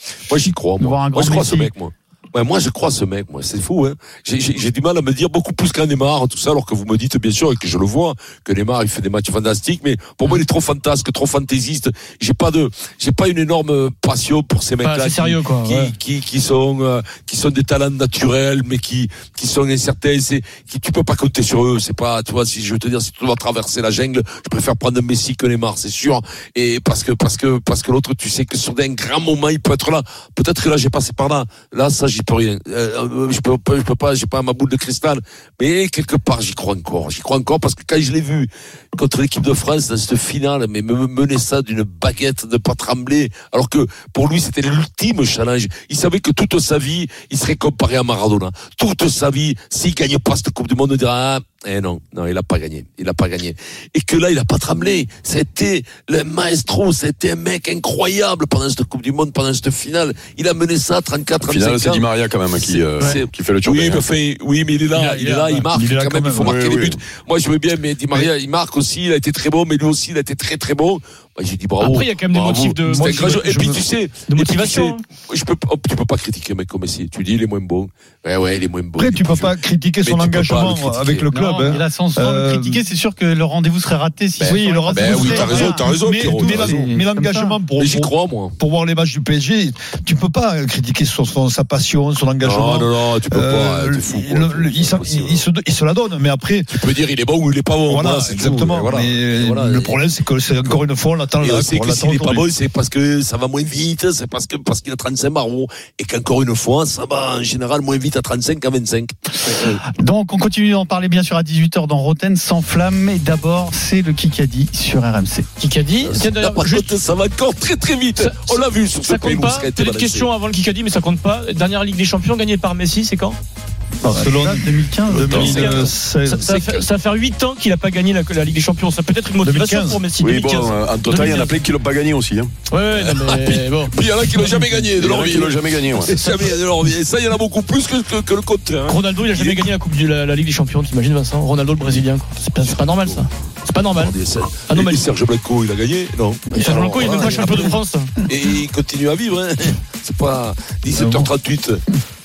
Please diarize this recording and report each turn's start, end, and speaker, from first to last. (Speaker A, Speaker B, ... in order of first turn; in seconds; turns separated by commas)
Speaker A: 0.3-81.3, Speaker B: 0.8-1.7, Speaker C: 14.8-15.9, Speaker D: 61.4-64.1, Speaker C: 65.0-65.6, Speaker E: 65.0-66.6, Speaker D: 66.4-67.0, Speaker C: 71.8-73.5, Speaker E: 72.8-73.8, Speaker C: 74.3-75.0, Speaker E: 79.0-82.8, Speaker B: 81.3-87.6, Speaker A: 84.4-86.8, Speaker E: 84.4-96.7, Speaker A: 87.8-88.5, Speaker A: 92.4-95.5, Speaker A: 96.7-100.0, Speaker E: 97.9-102.5, Speaker A: 101.4-109.8, Speaker B: 110.0-115.5, Speaker C: 115.6-116.9, Speaker A: 116.0-120.3, Speaker C: 118.2-123.4, Speaker E: 124.0-126.5, Speaker B: 124.0-125.7, Speaker C: 125.2-131.6, Speaker A: 125.2-126.8, Speaker E: 129.4-130.0, Speaker D: 130.2-132.5, Speaker C: 132.7-134.8, Speaker A: 133.0-139.6, Speaker D: 134.9-136.2, Speaker C: 138.9-144.2, Speaker A: 142.6-143.3, Speaker A: 143.9-151.8, Speaker C: 144.7-145.1, Speaker C: 146.5-148.1, Speaker E: 151.0-151.3